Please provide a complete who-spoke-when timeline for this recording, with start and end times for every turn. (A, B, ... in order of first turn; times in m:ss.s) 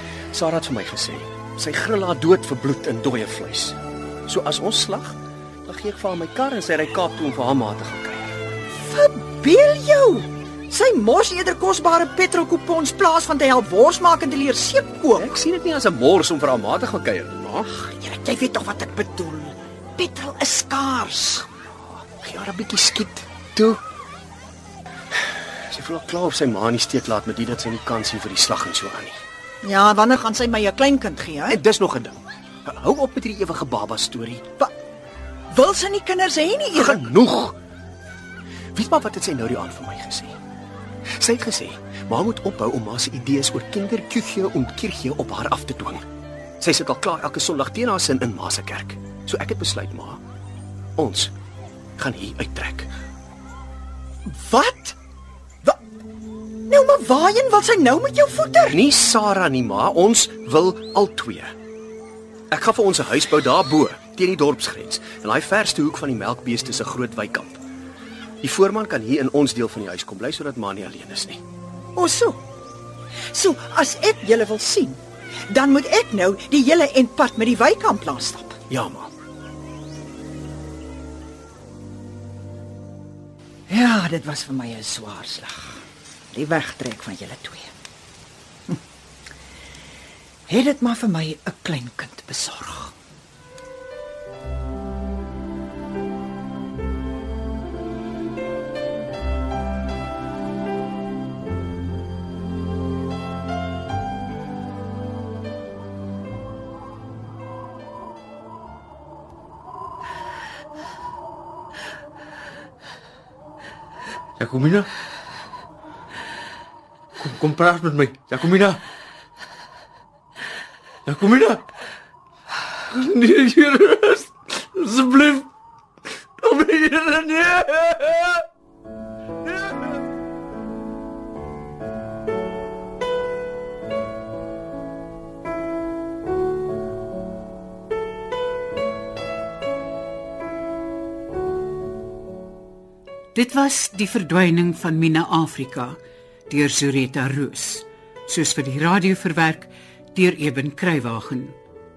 0:00.3-0:08.5 A
0:08.8-0:15.3 B
0:15.1-0:17.7 A
0:17.7-0:21.5 B
0:22.2-0:23.8 A
0:25.2-0:29.2 A
0:29.6-0:31.6 B
0:31.5-0:34.4 A
0:35.5-0:37.1 B
0:36.8-0:37.6 A
0:38.7-0:40.4 A
0:41.2-0:46.0 A
0:46.6-0:50.2 A
0:51.0-0:51.3 A
0:52.0-0:52.9 A
0:54.2-0:55.0 B
0:56.7-0:58.8 B
0:58.7-1:01.5 A
1:02.5-1:07.6 A
1:08.4-1:11.4 A
1:11.9-1:12.4 B
1:13.3-1:18.6 B
1:18.7-1:19.1 A
1:23.7-1:25.8 B
1:26.3-1:27.7 B
1:30.5-1:32.9 B
1:54.4-1:54.9 C
1:57.2-1:58.8 C
2:01.0-2:01.6 C
2:02.9-2:05.5 C
2:06.4-2:08.4 C
2:09.4-2:09.8 C
2:23.3-2:26.0 D
2:26.5-2:31.6 D